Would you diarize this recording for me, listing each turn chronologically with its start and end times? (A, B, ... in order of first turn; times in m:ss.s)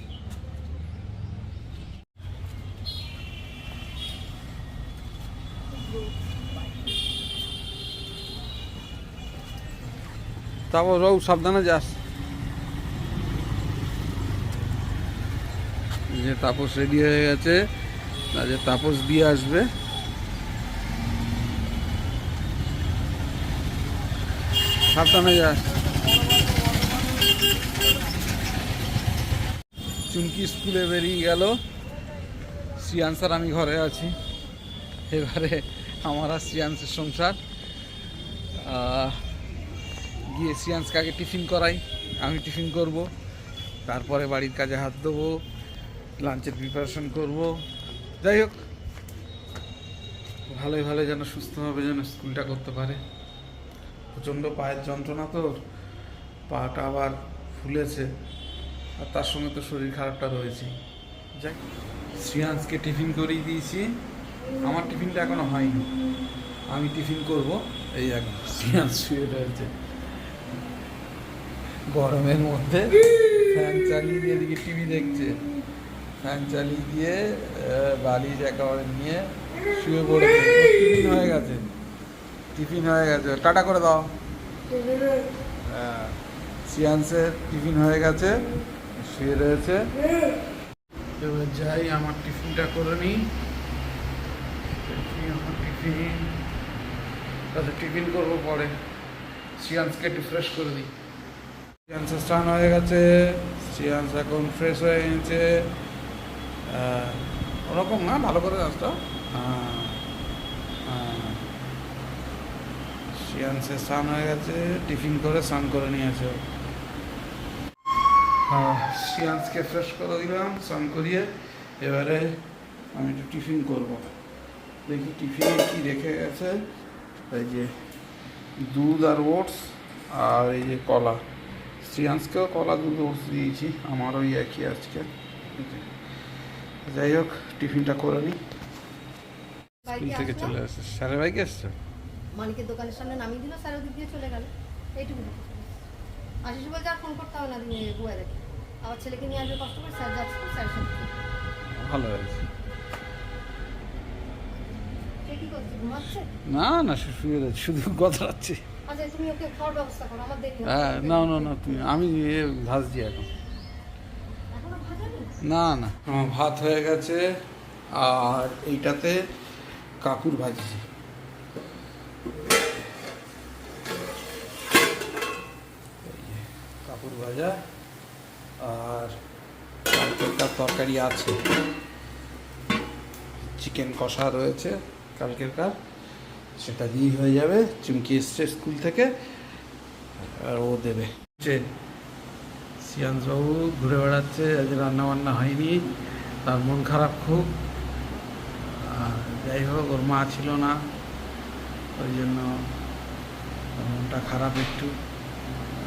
0:10.7-0:12.0 A
0:16.1-0:17.6 A
0:18.3-0:19.7 A
0:24.9-0:25.6 A
0:30.1-0:31.6 A
0:32.8-0:34.1 A
0:35.1-0:37.4 A
0:38.5-0:39.2 A
0:40.2-0:43.1 A
0:43.8-0:45.4 A
0:46.2-0:47.6 A
0:48.2-0:48.6 A
0:50.5-0:53.0 A
0:54.1-0:55.5 A
0:56.5-0:58.1 A
0:59.0-1:00.7 A
1:01.4-1:01.6 A
1:02.1-1:03.9 A
1:04.6-1:05.9 A
1:06.7-1:09.7 A
1:11.9-1:15.4 A
1:16.2-1:21.7 A
1:22.5-1:24.1 A
1:25.6-1:26.2 A
1:26.7-1:28.4 A
1:29.0-1:29.9 A
1:31.2-1:33.2 A
1:34.8-1:36.4 A
1:37.5-1:38.7 A
1:39.6-1:40.9 A
1:41.9-1:45.7 A
1:46.6-1:50.0 A
1:50.8-1:51.5 A
1:53.1-1:56.4 A
1:58.4-2:02.4 A
2:02.9-2:04.1 A
2:04.8-2:06.6 A
2:07.3-2:07.7 A
2:08.6-2:11.2 A
2:11.8-2:15.9 A
2:16.8-2:18.4 A
2:19.8-2:20.6 B
2:19.9-2:21.7 A
2:22.3-2:25.6 B
2:26.4-2:31.1 B
2:31.8-2:32.5 A
2:35.2-2:36.3 B
2:36.4-2:38.6 A
2:38.9-2:41.9 B
2:40.6-2:43.3 A
2:44.5-2:45.3 B
2:45.4-2:47.3 A
2:47.9-2:49.2 A
2:50.0-2:50.8 A
2:56.0-2:57.6 A
2:58.6-2:59.2 A
2:59.9-3:01.4 A
3:03.6-3:05.7 A
3:06.6-3:09.1 A
3:10.2-3:11.6 A
3:12.8-3:15.9 A
3:16.4-3:17.5 A
3:18.6-3:20.8 A
3:22.0-3:22.5 A
3:23.8-3:24.9 A